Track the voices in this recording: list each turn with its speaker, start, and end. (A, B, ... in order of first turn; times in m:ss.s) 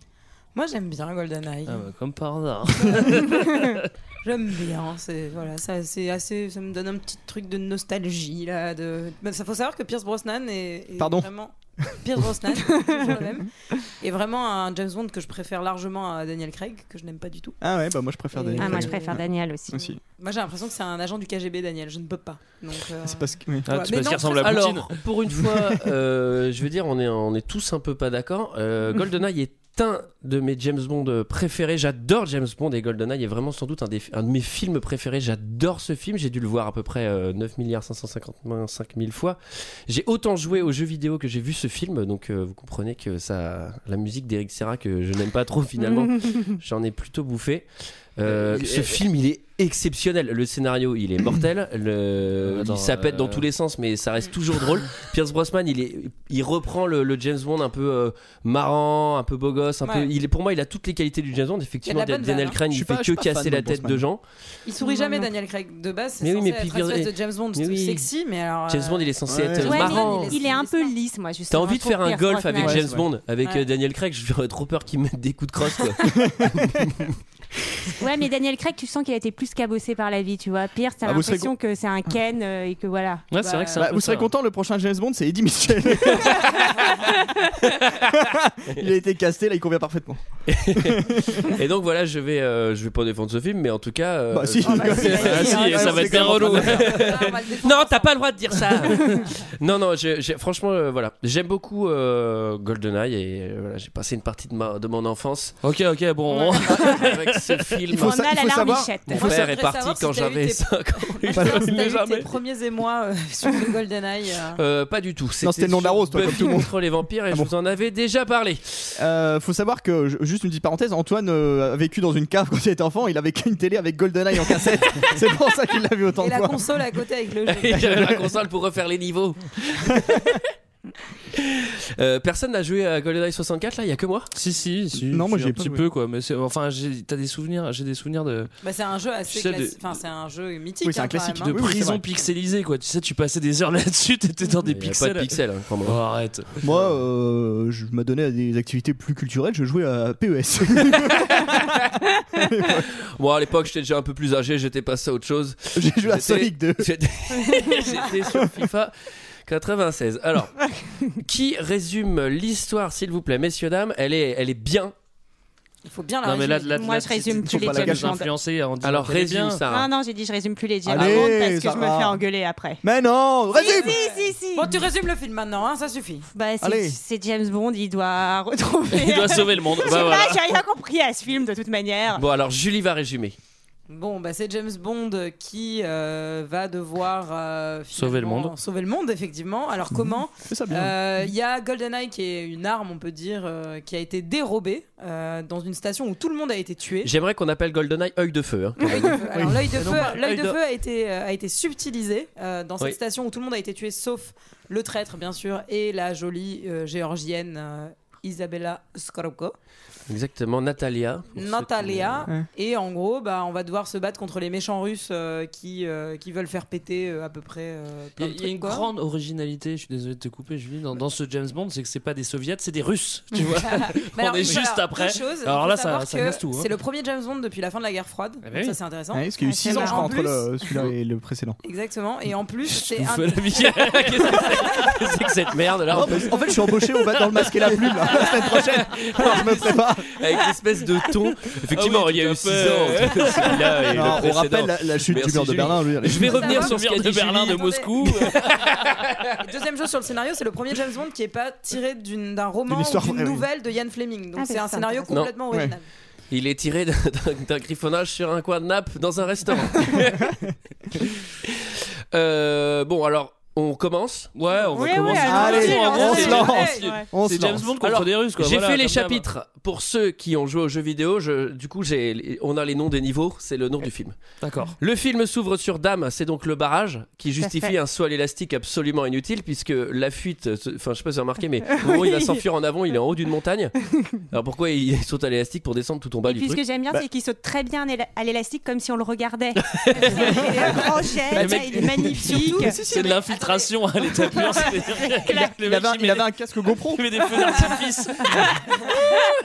0:00.5-0:01.8 A
0:01.7-0:03.8 B
0:02.8-0:03.2 A
0:04.2-0:17.6 A
0:11.0-0:11.3 C
0:17.6-0:20.0 C
0:18.3-0:19.2 A
0:18.6-0:19.8 D
0:20.2-0:24.7 A
0:23.0-0:23.7 C
0:23.6-0:25.0 B
0:24.4-1:04.2 E
0:45.8-0:46.5 D
0:48.3-0:49.0 B
0:52.4-0:53.4 B
0:59.8-1:00.1 A
1:01.8-1:02.6 A
1:02.7-1:04.0 C
1:04.6-1:10.9 A
1:04.8-1:05.3 D
1:06.2-1:08.1 E
1:08.7-1:10.3 E
1:09.3-1:10.2 C
1:09.6-1:12.8 D
1:11.5-1:17.1 E
1:12.5-1:13.1 C
1:16.1-1:16.9 C
1:18.0-1:23.2 D
1:21.0-1:21.5 C
1:23.3-1:24.3 B
1:23.4-1:23.9 A
1:23.7-1:26.6 C
1:27.9-1:31.5 C
1:30.5-1:45.6 E
1:34.3-1:37.1 C
1:34.6-1:36.2 D
1:35.0-1:37.1 B
1:37.0-1:38.1 A
1:45.6-1:47.6 B
1:46.3-1:46.9 D
1:46.8-1:48.2 E
1:47.9-1:49.2 C
1:48.0-1:49.3 D
1:49.1-1:52.3 E
1:49.2-1:54.6 A
1:51.3-1:51.7 C
1:54.6-1:58.9 E
1:55.4-1:56.7 C
1:59.0-2:06.6 C
2:06.2-2:08.2 A
2:07.5-2:10.4 E
2:11.4-2:14.3 E
2:14.3-2:18.5 B
2:14.9-2:15.9 C
2:18.6-2:21.6 A
2:19.3-2:19.8 B
2:20.8-2:22.0 C
2:21.4-2:26.9 B
2:24.7-2:26.0 E
2:26.6-2:31.6 C
2:32.4-2:32.8 C
2:33.2-2:38.9 E
2:35.7-2:36.9 C
2:39.4-2:44.9 E
2:45.8-2:47.1 A
2:46.2-2:49.6 B
2:46.8-2:48.3 D
2:47.3-2:48.2 C
2:48.8-2:49.9 E
2:49.7-2:52.8 D
2:50.8-2:52.2 C
2:52.8-2:54.0 C
2:53.5-2:54.8 D
2:53.6-2:56.3 A
2:56.3-3:02.2 D
2:56.6-2:57.0 C
2:58.9-3:00.6 B
3:02.1-3:03.4 E
3:03.9-3:17.1 A
3:07.9-3:08.5 B
3:09.9-3:11.0 C
3:17.0-3:19.2 E
3:18.8-3:29.5 A
3:19.3-3:19.8 C
3:19.7-3:20.6 B
3:30.1-3:32.3 E
3:31.4-3:38.8 A
3:38.2-3:46.7 B
3:43.6-3:50.4 A
3:48.4-3:48.8 B
3:49.1-3:51.6 C
3:49.4-3:50.2 D
3:51.6-3:53.8 A
3:52.7-3:54.9 B
3:53.6-3:56.4 E
3:55.9-4:00.0 C
3:57.1-3:58.3 B
3:58.2-4:08.7 E
4:01.7-4:04.2 B
4:03.9-4:06.3 C
4:06.1-4:08.6 B
4:06.2-4:07.9 A
4:09.4-4:15.8 A
4:12.7-4:13.4 C
4:14.4-4:15.1 D
4:15.1-4:15.3 E
4:16.3-4:20.3 E
4:22.1-4:24.3 E
4:24.3-4:29.2 B
4:24.7-4:27.0 D
4:25.2-4:27.7 C
4:25.4-4:26.9 A
4:27.8-4:46.6 E
4:34.4-4:34.7 B
4:37.4-4:37.7 D
4:41.8-4:42.4 D
4:46.2-4:52.8 D
4:49.6-4:50.4 E
4:51.3-4:53.1 C
4:51.3-4:52.2 E
4:52.6-4:55.0 A
4:52.8-4:56.4 B
4:55.2-4:55.5 D
4:55.6-4:57.0 C
4:56.9-4:58.5 B
4:58.7-4:59.1 A